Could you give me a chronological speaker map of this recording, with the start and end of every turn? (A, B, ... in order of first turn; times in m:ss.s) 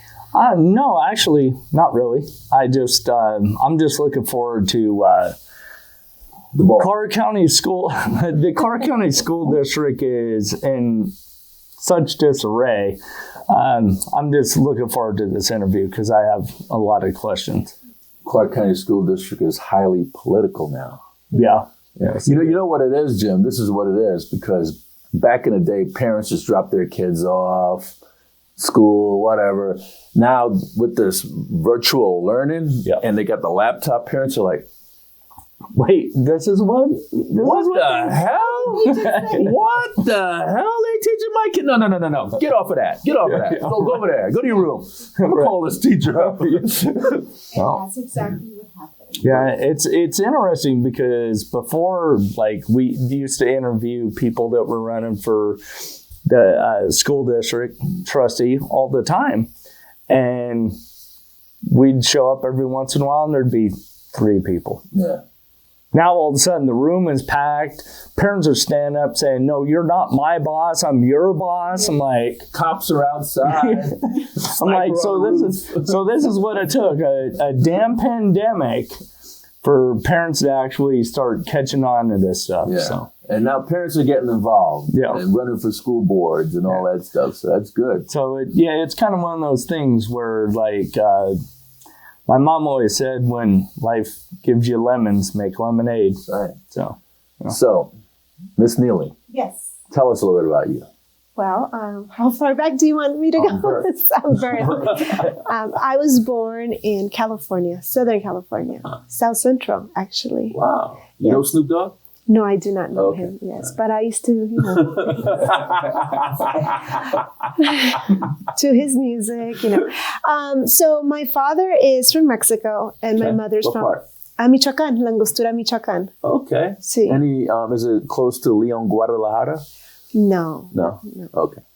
0:00.3-0:05.4 A
0:06.5-0:06.9 B
0:06.6-0:11.1 A
0:11.8-0:17.7 A
0:18.2-0:21.0 B
0:21.3-0:22.6 A
0:22.1-0:28.0 B
0:28.6-0:34.7 B
0:35.7-0:38.3 A
0:37.4-0:47.2 B
0:38.4-0:39.5 C
0:38.8-0:39.5 A
0:43.2-0:44.0 A
0:45.2-0:45.6 A
0:46.2-0:46.8 A
0:47.5-0:49.3 C
0:47.6-0:47.8 A
0:49.2-0:55.6 A
0:56.2-0:59.5 A
1:00.1-1:00.8 A
1:01.7-1:04.8 A
1:04.9-1:05.2 B
1:05.9-1:12.5 A
1:12.5-1:16.0 B
1:13.5-1:18.9 A
1:19.6-1:23.1 A
1:22.6-1:28.1 B
1:24.9-1:25.2 A
1:28.1-1:31.4 A
1:32.3-1:37.6 A
1:36.3-1:36.6 B
1:37.5-1:37.9 B
1:38.6-1:39.1 B
1:39.3-1:39.7 C
1:39.9-1:40.9 B
1:41.4-1:50.6 C
1:43.4-1:43.9 B
1:44.7-1:45.2 B
1:50.5-1:51.9 B
1:51.2-1:51.5 C
1:52.3-1:55.6 C
1:53.0-1:53.3 B
1:54.7-1:56.2 B
1:57.6-2:06.1 C
2:03.2-2:04.0 B
2:06.2-2:09.6 B
2:06.8-2:07.2 C
2:10.1-2:11.3 C
2:10.7-2:11.6 B